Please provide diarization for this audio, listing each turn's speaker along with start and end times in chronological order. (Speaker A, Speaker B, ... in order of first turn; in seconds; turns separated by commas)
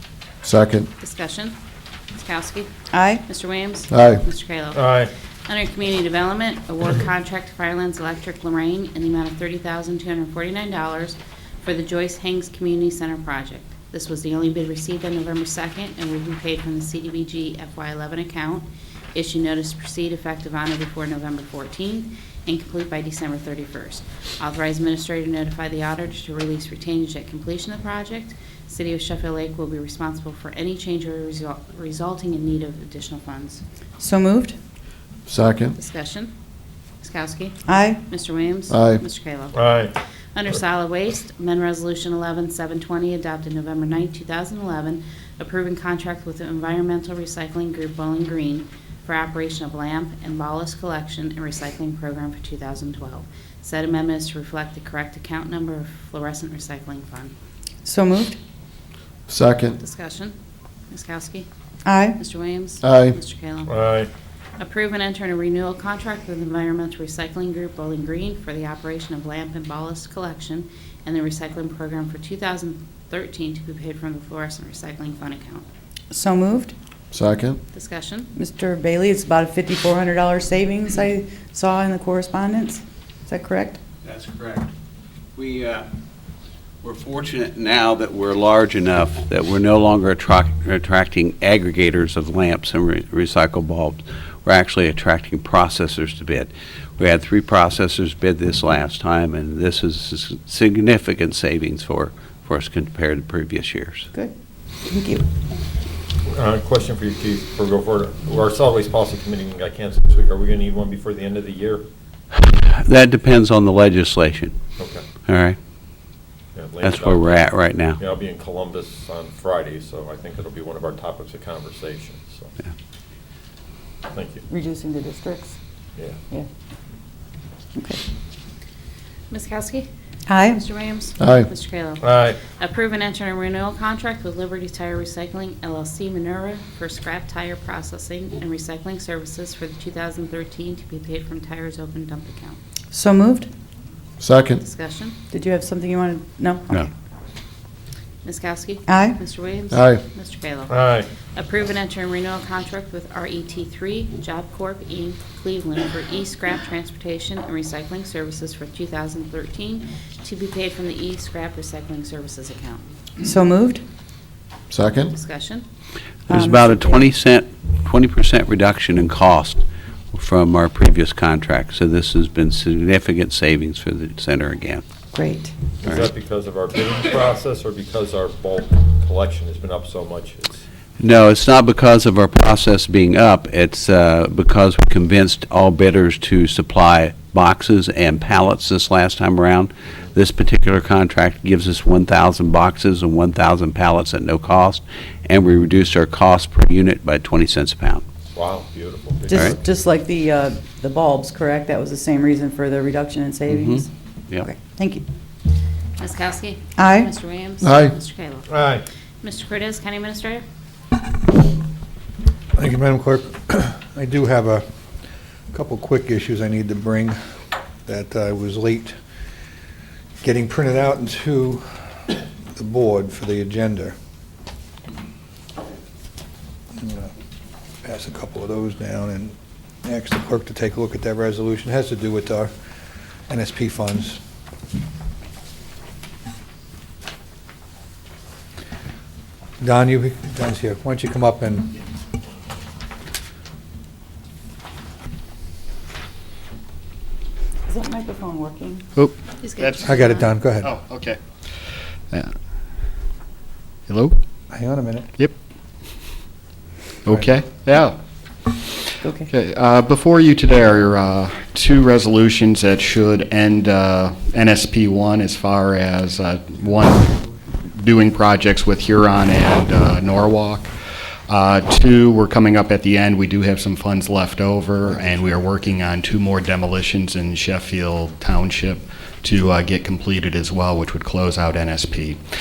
Speaker A: 0.4-0.9, Speaker B: 1.0-1.6, Speaker B: 2.1-2.7, Speaker C: 2.9-3.2, Speaker B: 3.3-4.9, Speaker A: 3.9-4.2, Speaker D: 4.7-5.1, Speaker B: 5.5-33.6, Speaker C: 34.0-34.6, Speaker A: 35.3-35.8, Speaker B: 35.8-36.3, Speaker B: 37.0-39.6, Speaker C: 37.7-38.0, Speaker A: 38.7-39.0, Speaker D: 39.5-39.9, Speaker B: 40.4-57.3, Speaker C: 57.9-58.4, Speaker A: 59.3-59.8, Speaker B: 59.8-60.4, Speaker B: 60.9-61.5, Speaker C: 61.9-62.2, Speaker B: 62.2-63.7, Speaker A: 62.8-63.2, Speaker D: 63.7-64.1, Speaker B: 64.6-75.7, Speaker C: 76.1-76.7, Speaker A: 77.1-77.6, Speaker B: 77.7-78.3, Speaker C: 78.3-83.8, Speaker E: 84.0-84.7, Speaker E: 85.3-85.9, Speaker E: 86.8-104.1, Speaker C: 104.9-105.3, Speaker D: 106.3-111.8, Speaker E: 112.3-114.5, Speaker D: 114.8-115.0, Speaker E: 115.3-115.6, Speaker D: 116.5-122.5, Speaker E: 116.8-118.0, Speaker D: 124.1-124.4, Speaker C: 124.5-125.6, Speaker B: 129.3-129.9, Speaker C: 130.3-130.6, Speaker B: 130.5-142.6, Speaker A: 131.2-131.5, Speaker D: 132.0-132.4, Speaker C: 142.9-143.5, Speaker A: 144.2-144.6, Speaker B: 144.6-145.2, Speaker C: 145.3-146.9, Speaker B: 148.2-150.8, Speaker C: 148.9-149.3, Speaker A: 149.7-150.0, Speaker D: 150.7-151.1, Speaker B: 151.3-162.8, Speaker C: 163.2-163.8, Speaker A: 164.7-165.1, Speaker B: 165.1-165.6, Speaker C: 166.3-167.0, Speaker E: 166.3-174.8, Speaker C: 175.1-175.5, Speaker D: 175.8-180.6, Speaker E: 181.0-198.1, Speaker D: 198.3-199.6, Speaker C: 199.3-205.0, Speaker E: 203.5-204.4, Speaker B: 206.0-208.5, Speaker C: 206.8-207.1, Speaker A: 207.6-207.9, Speaker D: 208.5-208.8, Speaker B: 209.2-210.4, Speaker F: 212.6-214.7, Speaker F: 215.5-217.2, Speaker F: 217.9-219.0, Speaker F: 220.2-224.0, Speaker F: 226.8-227.1, Speaker F: 227.8-232.5, Speaker F: 233.3-234.2, Speaker F: 239.6-241.8, Speaker C: 247.7-248.8, Speaker G: 248.9-249.9, Speaker B: 249.4-250.3, Speaker F: 249.8-250.7, Speaker G: 250.6-251.2, Speaker G: 253.9-254.2, Speaker F: 254.5-255.1, Speaker G: 257.1-270.7, Speaker C: 259.0-259.3, Speaker G: 271.3-282.2